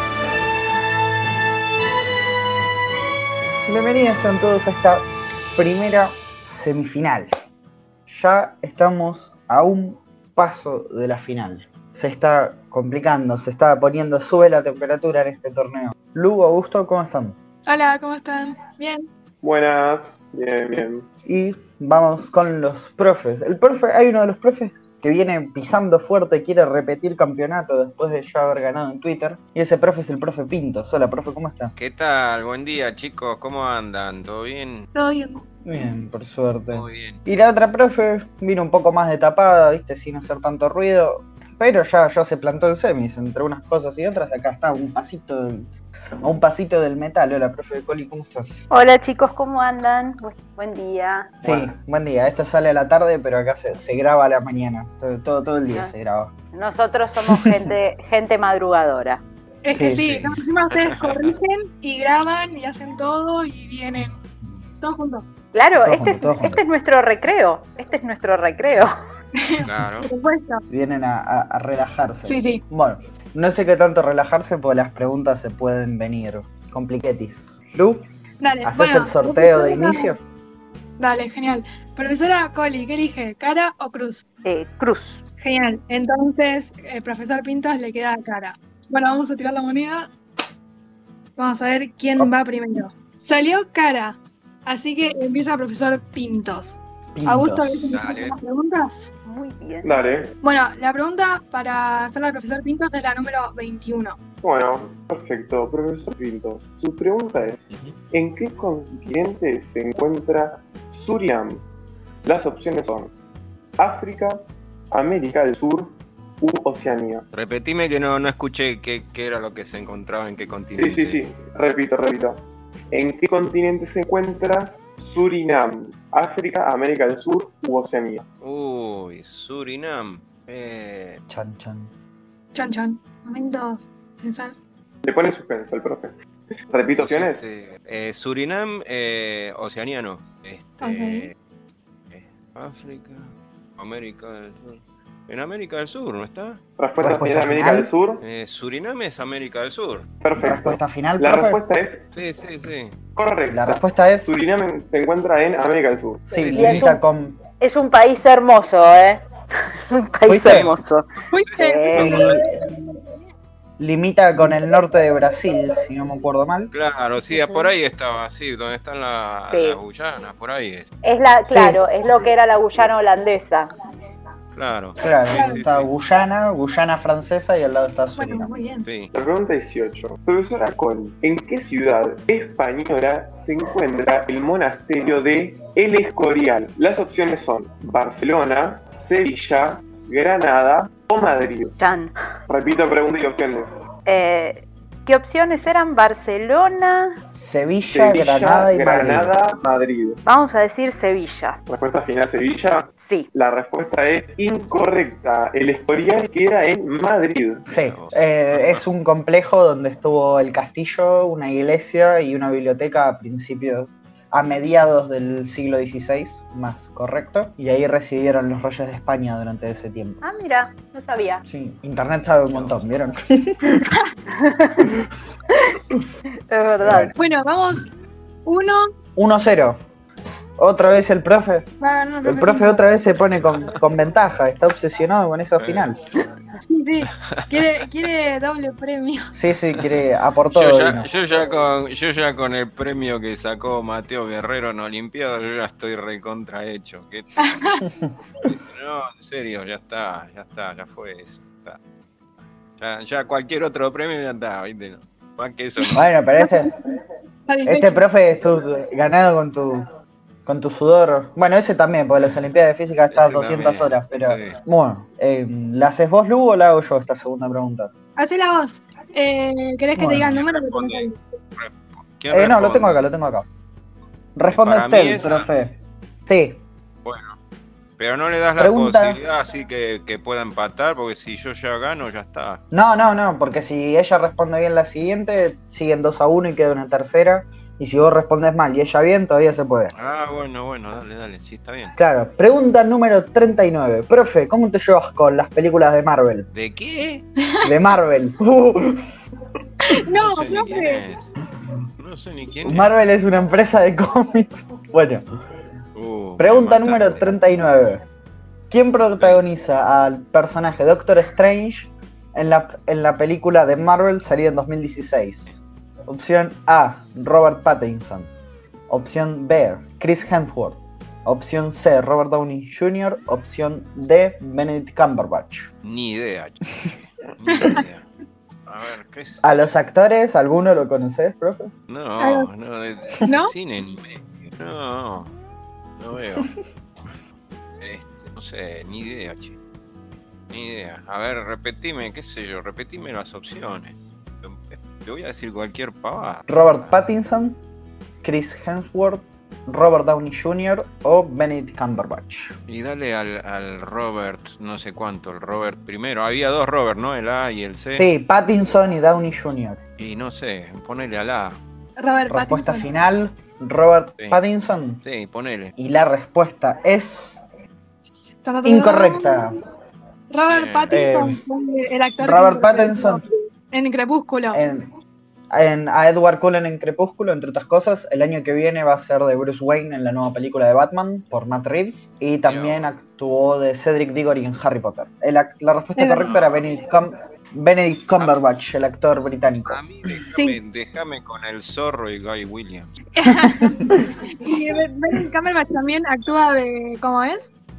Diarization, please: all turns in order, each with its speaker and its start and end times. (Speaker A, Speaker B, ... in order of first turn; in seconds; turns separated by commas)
Speaker A: 3.6-7.3, Speaker A: 8.1-17.4, Speaker B: 17.6-19.1, Speaker C: 19.4-21.1, Speaker A: 21.2-31.7, Speaker D: 31.8-34.9, Speaker B: 34.9-35.4, Speaker A: 35.6-45.7, Speaker D: 36.7-37.2, Speaker A: 46.2-48.6, Speaker E: 48.7-51.4, Speaker A: 51.4-56.3, Speaker E: 56.5-59.2, Speaker B: 59.6-64.2, Speaker A: 59.7-60.2, Speaker D: 60.0-61.4, Speaker B: 64.8-65.2, Speaker E: 65.5-68.9, Speaker A: 65.8-66.6, Speaker B: 69.4-70.6, Speaker D: 69.6-70.1, Speaker A: 70.7-78.0, Speaker B: 72.2-72.6, Speaker B: 78.4-80.1, Speaker A: 78.6-80.2, Speaker B: 81.0-84.3, Speaker E: 84.4-85.2, Speaker B: 85.4-90.1, Speaker B: 91.4-99.1, Speaker A: 97.1-97.8, Speaker D: 97.9-98.3, Speaker E: 99.2-100.0, Speaker C: 99.8-100.3, Speaker B: 100.4-104.2, Speaker C: 104.4-111.6, Speaker C: 112.2-113.1, Speaker C: 113.8-117.2, Speaker D: 117.3-121.2, Speaker C: 120.7-128.2, Speaker D: 128.4-131.2, Speaker A: 131.3-131.9, Speaker B: 132.5-134.5, Speaker C: 135.0-137.4, Speaker D: 137.0-141.3, Speaker B: 140.8-141.3, Speaker D: 142.1-146.6, Speaker C: 146.8-148.2, Speaker A: 146.9-147.9, Speaker D: 148.2-150.1, Speaker C: 150.2-152.0, Speaker A: 150.4-151.6, Speaker D: 152.1-152.9, Speaker C: 153.1-156.3, Speaker A: 153.5-154.3, Speaker A: 156.3-157.4, Speaker D: 156.3-156.9, Speaker E: 156.4-157.0, Speaker E: 157.6-159.2, Speaker E: 159.9-162.3, Speaker A: 160.3-160.7, Speaker B: 161.3-162.2, Speaker D: 161.4-162.4, Speaker A: 162.0-162.4, Speaker A: 163.8-166.7, Speaker D: 166.7-170.9, Speaker E: 167.3-167.7, Speaker E: 169.5-169.8, Speaker E: 171.0-173.7, Speaker A: 171.5-171.8, Speaker D: 174.5-175.9, Speaker A: 175.0-178.5, Speaker B: 175.3-175.6, Speaker B: 178.2-178.9, Speaker D: 178.8-179.1, Speaker C: 179.1-191.8, Speaker E: 191.8-192.1, Speaker C: 192.5-193.7, Speaker E: 194.1-197.2, Speaker A: 197.3-199.3, Speaker C: 197.9-200.2, Speaker E: 200.2-201.6, Speaker C: 201.7-207.6, Speaker E: 203.0-203.3, Speaker D: 207.7-208.8, Speaker A: 207.7-220.2, Speaker E: 220.2-221.4, Speaker A: 221.4-223.9, Speaker D: 222.5-222.7, Speaker E: 224.3-224.9, Speaker E: 226.5-227.1, Speaker A: 226.8-227.1, Speaker B: 227.2-227.9, Speaker B: 228.4-228.8, Speaker A: 229.2-229.8, Speaker A: 230.6-231.7, Speaker B: 231.8-232.8, Speaker A: 232.2-236.0, Speaker D: 235.6-235.8, Speaker B: 236.6-239.3, Speaker D: 237.2-237.6, Speaker A: 239.3-241.1, Speaker D: 239.7-240.0, Speaker D: 240.5-247.7, Speaker B: 247.4-247.8, Speaker D: 248.4-251.8, Speaker D: 252.8-256.0, Speaker A: 255.9-256.7, Speaker B: 257.5-258.0, Speaker A: 257.6-259.9, Speaker A: 260.4-267.9, Speaker D: 263.1-264.6, Speaker B: 268.2-271.2, Speaker A: 269.9-270.4, Speaker D: 270.3-273.0, Speaker A: 272.3-273.4, Speaker A: 274.4-276.6, Speaker D: 274.4-275.5, Speaker D: 277.0-277.4, Speaker D: 278.0-282.6, Speaker A: 278.6-279.2, Speaker A: 282.7-289.9, Speaker D: 289.9-291.9, Speaker A: 291.9-296.5, Speaker D: 296.5-297.2, Speaker A: 297.6-299.1, Speaker B: 299.9-301.0, Speaker D: 300.1-301.2, Speaker D: 302.0-302.9, Speaker A: 302.6-305.2, Speaker D: 305.9-307.3, Speaker A: 306.4-308.0, Speaker A: 308.7-315.5, Speaker A: 316.1-318.3, Speaker A: 318.9-325.7, Speaker D: 325.8-328.1, Speaker D: 328.6-329.5, Speaker A: 329.4-331.7, Speaker D: 331.9-335.3, Speaker B: 332.2-332.5, Speaker B: 333.2-333.5, Speaker D: 336.0-336.5, Speaker D: 337.8-339.6, Speaker D: 340.5-347.0, Speaker A: 346.5-347.6, Speaker A: 348.2-352.6, Speaker D: 352.7-358.1, Speaker A: 357.9-359.8, Speaker D: 360.0-361.6, Speaker B: 362.0-362.9, Speaker A: 362.3-365.0, Speaker D: 365.0-365.7, Speaker A: 365.8-367.4, Speaker B: 368.0-369.5, Speaker A: 368.6-369.6, Speaker B: 370.3-374.6, Speaker D: 370.5-371.0, Speaker A: 370.9-371.4, Speaker A: 372.2-373.2, Speaker A: 374.5-374.9, Speaker A: 375.5-389.8, Speaker D: 382.4-382.9, Speaker B: 386.0-386.3, Speaker D: 386.2-386.5, Speaker D: 389.6-393.0, Speaker B: 390.3-390.6, Speaker B: 393.2-397.5, Speaker A: 393.3-394.1